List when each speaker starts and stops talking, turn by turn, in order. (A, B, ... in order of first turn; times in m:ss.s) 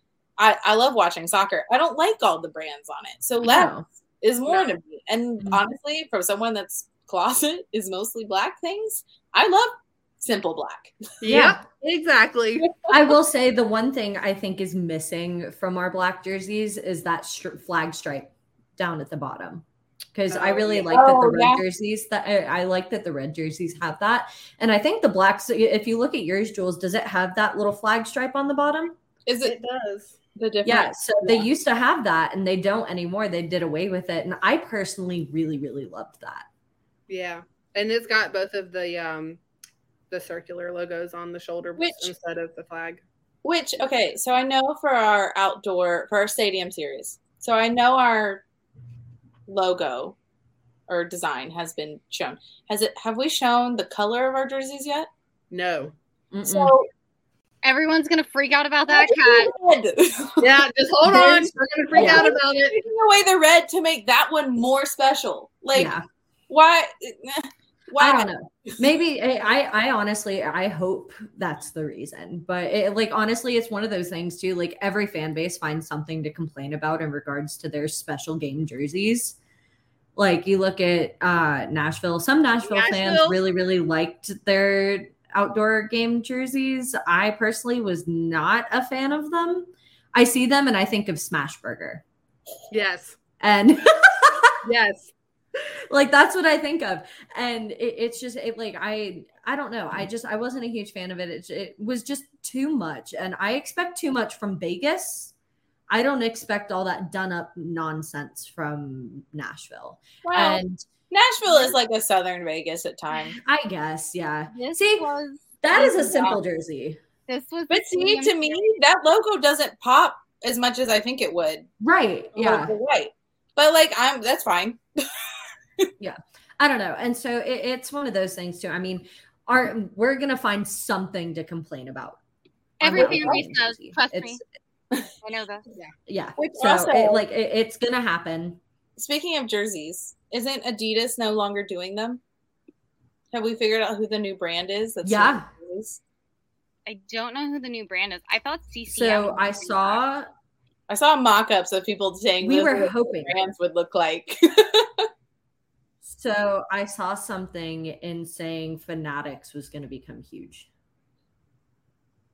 0:00.4-0:10.9 A
0:03.4-0:03.8 B
0:04.5-0:04.7 C
0:11.2-0:12.7 C
0:11.2-0:11.6 B
0:12.9-0:29.0 B
0:20.3-0:20.9 C
0:20.9-0:21.6 A
0:29.2-0:29.6 A
0:29.4-0:30.2 C
0:30.4-0:31.5 A
0:30.6-0:36.4 B
0:37.1-0:39.4 C
0:40.1-0:43.0 C
0:41.8-0:42.1 A
0:43.4-0:48.4 A
0:49.5-0:50.2 A
0:50.9-0:55.1 A
0:55.5-0:55.9 C
0:56.3-0:56.8 B
0:56.4-0:56.9 A
0:57.6-0:59.5 D
0:58.9-1:05.9 A
1:00.4-1:02.8 C
1:01.0-1:02.3 B
1:05.7-1:06.0 B
1:06.5-1:08.8 A
1:08.0-1:19.4 B
1:20.2-1:32.0 B
1:22.7-1:23.3 C
1:32.7-1:33.2 C
1:33.4-1:34.5 B
1:34.6-1:35.1 C
1:35.9-1:45.3 B
1:45.9-1:50.8 B
1:50.2-1:53.4 A
1:53.3-1:55.1 B
1:54.5-1:56.4 D
1:55.6-1:57.0 B
1:57.3-1:58.7 D
1:57.7-2:01.7 A
2:01.8-2:02.7 B
2:02.3-2:05.2 A
2:06.0-2:12.2 B
2:12.8-2:14.4 B
2:12.8-2:14.4 D
2:12.9-2:13.4 A
2:15.2-2:15.7 D
2:16.1-2:18.6 B
2:16.4-2:17.2 A
2:19.0-2:22.2 A
2:23.3-2:26.0 A
2:25.0-2:25.5 B
2:26.8-2:30.0 D
2:28.9-2:30.3 B
2:30.9-2:35.1 A
2:32.4-2:33.3 B
2:36.0-2:40.7 B